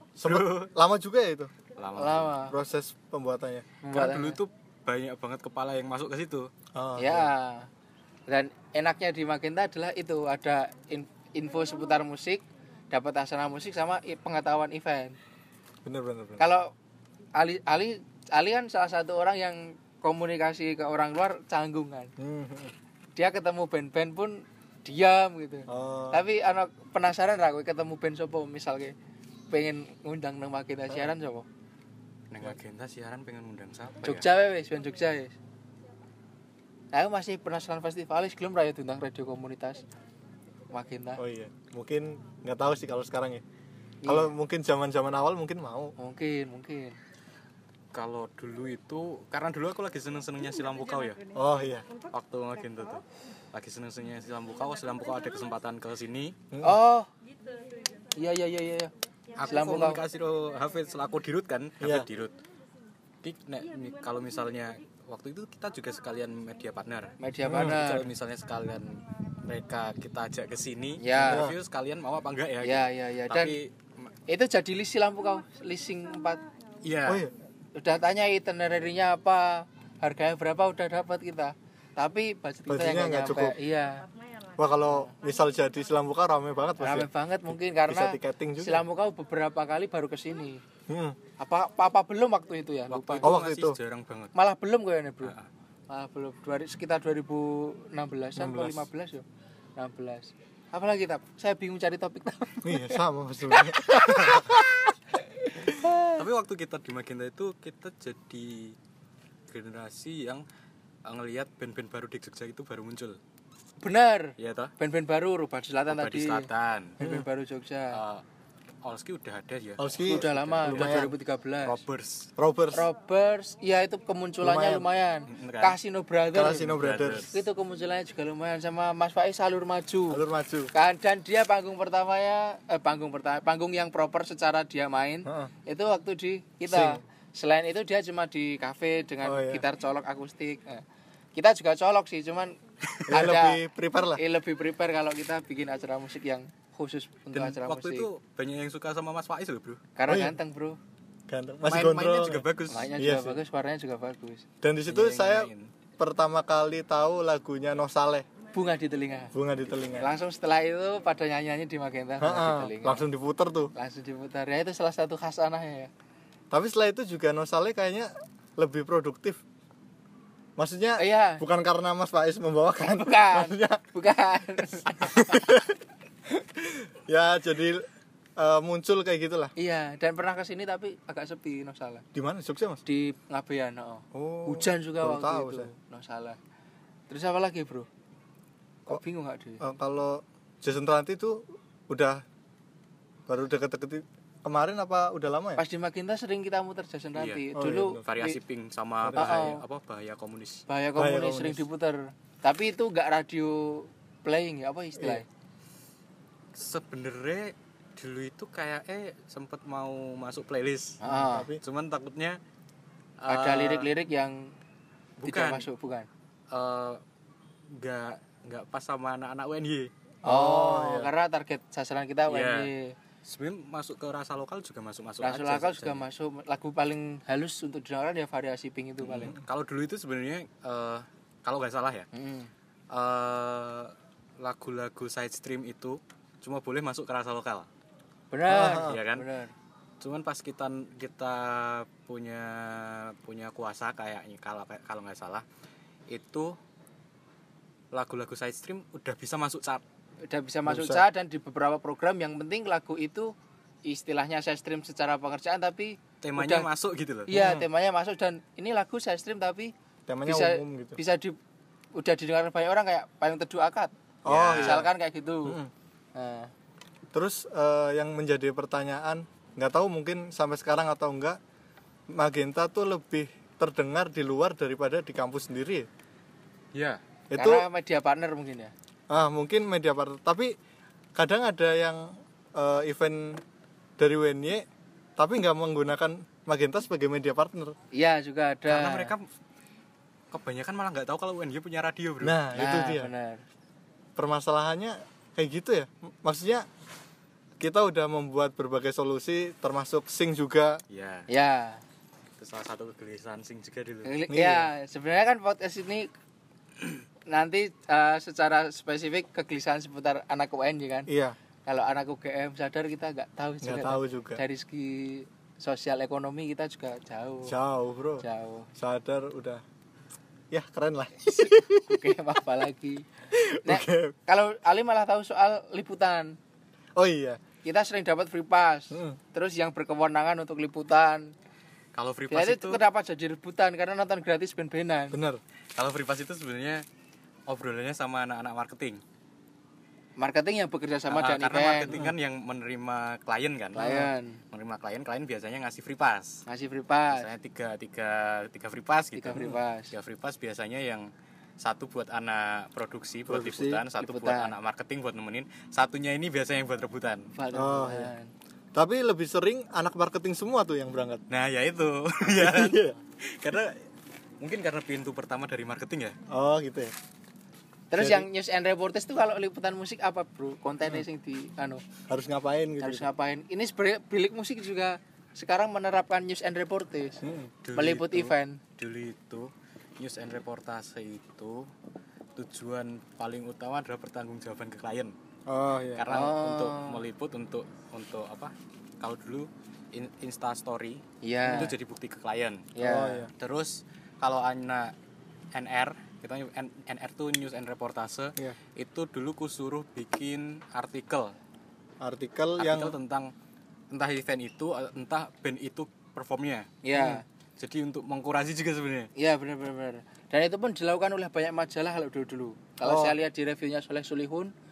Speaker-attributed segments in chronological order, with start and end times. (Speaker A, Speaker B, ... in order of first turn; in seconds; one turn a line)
Speaker A: 0.2-1.5
Speaker B: 0.2-0.7
Speaker B: 1.8-2.4
Speaker C: 1.9-2.6
Speaker A: 2.5-3.6
Speaker C: 3.8-4.4
Speaker B: 3.9-6.5
Speaker A: 6.7-7.3
Speaker C: 7.0-7.7
Speaker C: 8.3-15.2
Speaker A: 15.8-16.4
Speaker C: 16.4-16.7
Speaker C: 17.3-22.1
Speaker A: 22.2-22.7
Speaker C: 23.1-28.9
Speaker A: 25.7-26.2
Speaker C: 29.5-31.4
Speaker B: 32.3-34.3
Speaker C: 34.0-35.4
Speaker C: 36.9-39.9
Speaker C: 40.7-41.2
Speaker A: 41.2-43.4
Speaker C: 44.0-44.3
Speaker A: 44.0-45.9
Speaker C: 46.0-47.0
Speaker B: 47.9-51.2
Speaker A: 51.3-51.9
Speaker B: 52.1-56.4
Speaker A: 56.5-56.8
Speaker C: 56.6-57.1
Speaker C: 58.1-60.0
Speaker B: 59.4-62.4
Speaker A: 61.8-62.1
Speaker B: 63.2-74.1
Speaker C: 67.2-68.1
Speaker A: 67.5-67.8
Speaker C: 71.0-71.5
Speaker A: 71.2-71.5
Speaker C: 72.6-73.6
Speaker C: 74.3-76.4
Speaker B: 76.8-77.2
Speaker A: 77.0-77.3
Speaker C: 77.7-84.1
Speaker A: 82.7-83.6
Speaker A: 84.6-88.8
Speaker C: 84.8-85.1
Speaker C: 86.8-90.6
Speaker A: 90.9-91.2
Speaker C: 91.4-93.3
Speaker B: 92.9-94.3
Speaker A: 93.2-93.8
Speaker C: 94.3-95.3
Speaker B: 95.2-95.5
Speaker C: 95.9-99.2
Speaker A: 98.4-98.8
Speaker C: 99.8-106.2
Speaker A: 102.6-104.6
Speaker B: 106.1-108.8
Speaker B: 109.5-110.4
Speaker B: 111.0-113.2
Speaker C: 113.8-116.5
Speaker B: 114.4-114.7
Speaker B: 115.9-117.0
Speaker C: 117.0-118.0
Speaker A: 117.0-117.2
Speaker B: 117.9-118.2
Speaker B: 118.8-121.1
Speaker A: 119.8-121.1
Speaker C: 120.0-121.8
Speaker B: 121.6-122.3
Speaker A: 122.4-122.9
Speaker C: 122.7-130.2
Speaker A: 124.4-124.8
Speaker B: 125.3-125.8
Speaker A: 126.3-127.3
Speaker B: 126.7-127.3
Speaker A: 130.1-130.7
Speaker C: 130.7-140.8
Speaker A: 135.2-135.5
Speaker A: 136.7-137.0
Speaker A: 139.2-139.6
Speaker C: 141.3-142.6
Speaker A: 143.1-144.2
Speaker C: 143.1-143.6
Speaker C: 144.2-148.1
Speaker B: 147.3-149.8
Speaker C: 149.9-150.8
Speaker A: 150.1-150.4
Speaker A: 151.3-153.4
Speaker B: 151.7-152.9
Speaker C: 152.7-154.4
Speaker A: 154.6-158.3
Speaker B: 154.8-155.7
Speaker C: 158.5-159.3
Speaker A: 159.3-160.1
Speaker C: 160.0-163.1
Speaker A: 162.2-163.7
Speaker C: 163.7-165.9
Speaker A: 166.5-169.4
Speaker A: 170.6-173.8
Speaker C: 171.0-171.4
Speaker C: 172.8-175.5
Speaker A: 174.9-175.7
Speaker A: 176.3-177.8
Speaker A: 178.4-179.5
Speaker C: 179.6-182.0
Speaker A: 182.1-182.8
Speaker C: 182.8-186.4
Speaker A: 184.1-185.7
Speaker C: 187.1-187.9
Speaker C: 188.8-189.6
Speaker A: 189.6-192.2
Speaker A: 193.3-195.6
Speaker C: 195.6-198.4
Speaker B: 197.1-197.5
Speaker A: 197.6-198.0
Speaker B: 198.0-200.7
Speaker A: 199.0-199.4
Speaker C: 199.1-199.6
Speaker C: 200.7-205.2
Speaker A: 201.0-201.6
Speaker A: 205.0-205.2
Speaker B: 206.5-211.0
Speaker C: 211.0-211.5
Speaker A: 211.1-211.6
Speaker B: 211.6-212.4
Speaker B: 213.2-213.9
Speaker C: 213.3-214.5
Speaker B: 215.2-215.7
Speaker C: 215.2-216.1
Speaker B: 216.5-217.0
Speaker B: 217.7-219.9
Speaker A: 220.2-221.1
Speaker C: 220.2-222.9
Speaker B: 222.3-222.7
Speaker B: 223.2-226.1
Speaker C: 225.2-229.4
Speaker B: 229.0-232.1
Speaker C: 232.1-232.5
Speaker B: 232.9-237.7
Speaker C: 238.3-239.5
Speaker A: 238.5-239.0
Speaker B: 238.6-239.2
Speaker B: 240.0-245.4
Speaker B: 246.1-246.6
Speaker B: 247.9-249.8
Speaker C: 250.2-253.3
Speaker A: 250.7-251.0
Speaker C: 253.8-256.7
Speaker B: 256.2-257.3
Speaker A: 257.3-257.7
Speaker C: 257.3-259.7
Speaker A: 260.1-261.0
Speaker C: 260.2-261.4
Speaker C: 261.9-263.9
Speaker A: 264.2-264.9
Speaker B: 264.3-264.9
Speaker C: 264.5-265.6
Speaker A: 265.4-265.7
Speaker C: 266.1-266.5
Speaker A: 267.1-271.4
Speaker A: 272.1-275.9
Speaker B: 276.7-277.0
Speaker A: 277.3-277.6
Speaker C: 277.3-278.7
Speaker A: 279.1-280.5
Speaker A: 281.1-283.4
Speaker A: 284.0-284.6
Speaker A: 285.2-287.7
Speaker C: 287.9-289.1
Speaker B: 288.7-289.3
Speaker B: 290.3-292.4
Speaker A: 292.2-293.1
Speaker C: 292.5-293.4
Speaker A: 294.1-296.7
Speaker A: 297.6-300.8
Speaker B: 300.9-301.3
Speaker C: 301.3-301.8
Speaker B: 302.4-304.1
Speaker C: 304.0-306.1
Speaker A: 304.3-304.7
Speaker C: 307.3-311.1
Speaker A: 311.1-311.4
Speaker C: 311.6-317.5
Speaker A: 313.6-314.4
Speaker A: 317.4-318.2
Speaker C: 318.2-318.7
Speaker A: 318.7-319.6
Speaker A: 320.5-322.2
Speaker C: 321.3-323.1
Speaker A: 323.3-324.1
Speaker C: 323.6-326.4
Speaker A: 326.9-327.4
Speaker C: 327.6-331.3
Speaker A: 328.9-329.2
Speaker B: 331.9-332.8
Speaker C: 332.3-335.2
Speaker A: 335.1-335.4
Speaker B: 335.8-336.8
Speaker B: 337.5-339.0
Speaker C: 340.2-341.9
Speaker B: 341.1-346.4
Speaker C: 343.8-344.4
Speaker C: 346.5-347.3
Speaker B: 347.1-351.1
Speaker C: 349.1-349.9
Speaker B: 351.6-357.3
Speaker A: 353.3-353.6
Speaker C: 353.3-354.5
Speaker C: 357.4-358.3
Speaker A: 357.5-358.1
Speaker A: 358.7-361.2
Speaker B: 361.3-363.8
Speaker A: 362.2-362.9
Speaker B: 364.4-366.1
Speaker A: 366.3-366.9
Speaker C: 367.9-371.8
Speaker A: 368.0-368.3
Speaker A: 372.1-373.1
Speaker C: 372.8-377.2
Speaker A: 377.2-377.6
Speaker B: 377.6-381.7
Speaker C: 377.7-378.6
Speaker B: 382.4-385.1
Speaker A: 385.5-386.2
Speaker B: 385.9-392.7
Speaker C: 386.1-387.0
Speaker C: 391.2-391.7
Speaker C: 392.8-393.2
Speaker A: 392.8-393.3
Speaker B: 393.3-394.9
Speaker B: 395.5-401.3
Speaker A: 402.0-402.9
Speaker B: 402.6-403.3
Speaker B: 403.9-406.7
Speaker C: 406.8-407.2
Speaker A: 406.9-407.2
Speaker B: 407.6-409.1
Speaker C: 409.1-414.5
Speaker A: 412.8-413.1